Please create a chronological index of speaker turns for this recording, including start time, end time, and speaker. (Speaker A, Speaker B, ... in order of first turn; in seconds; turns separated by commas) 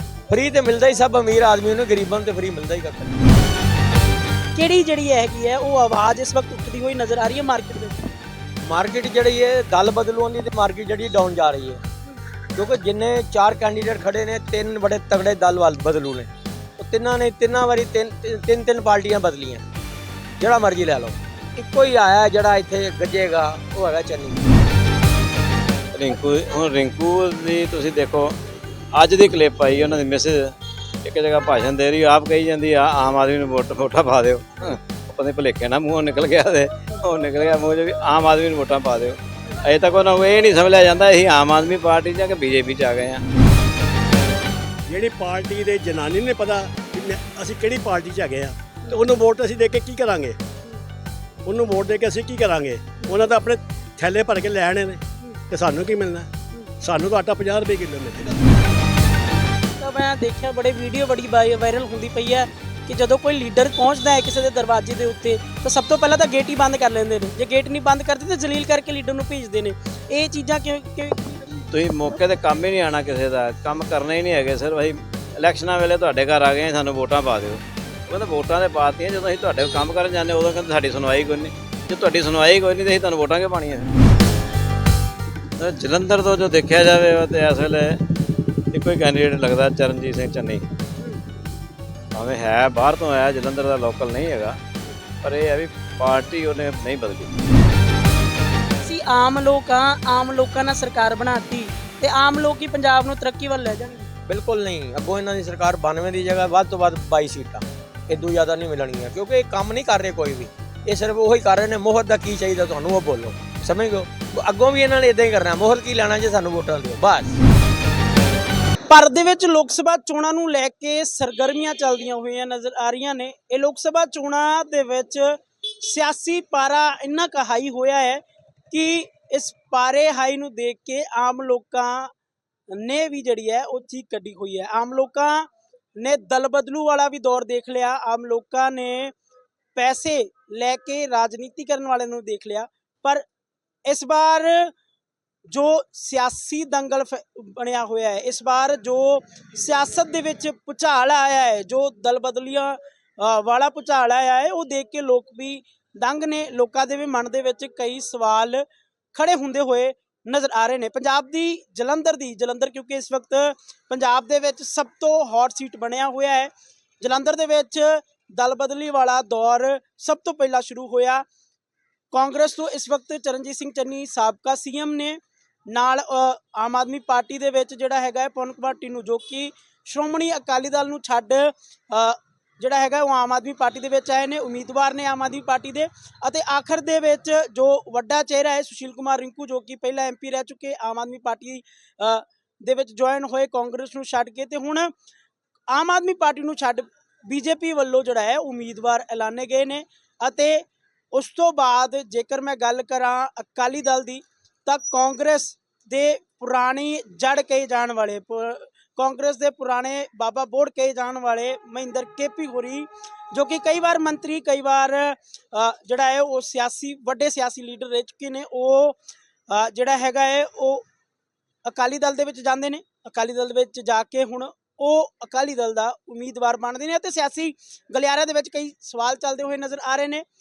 Speaker A: 0.3-3.3, Speaker B: 4.5-8.1, Speaker A: 8.6-11.8, Speaker A: 12.6-19.7, Speaker A: 20.4-24.4, Speaker C: 25.9-28.4, Speaker C: 28.9-43.2, Speaker D: 44.9-50.4, Speaker D: 51.5-58.6, Speaker B: 59.8-71.7, Speaker C: 71.7-83.9, Speaker C: 85.6-88.2, Speaker C: 88.7-90.7, Speaker C: 92.1-94.6, Speaker C: 95.2-97.4, Speaker B: 98.8-104.1, Speaker A: 104.3-117.4, Speaker B: 118.9-132.1, Speaker B: 132.7-139.2, Speaker B: 139.8-143.2, Speaker B: 143.8-144.7, Speaker B: 145.5-171.2, Speaker B: 172.1-194.9, Speaker B: 195.7-219.0, Speaker B: 219.5-220.8, Speaker B: 221.7-230.2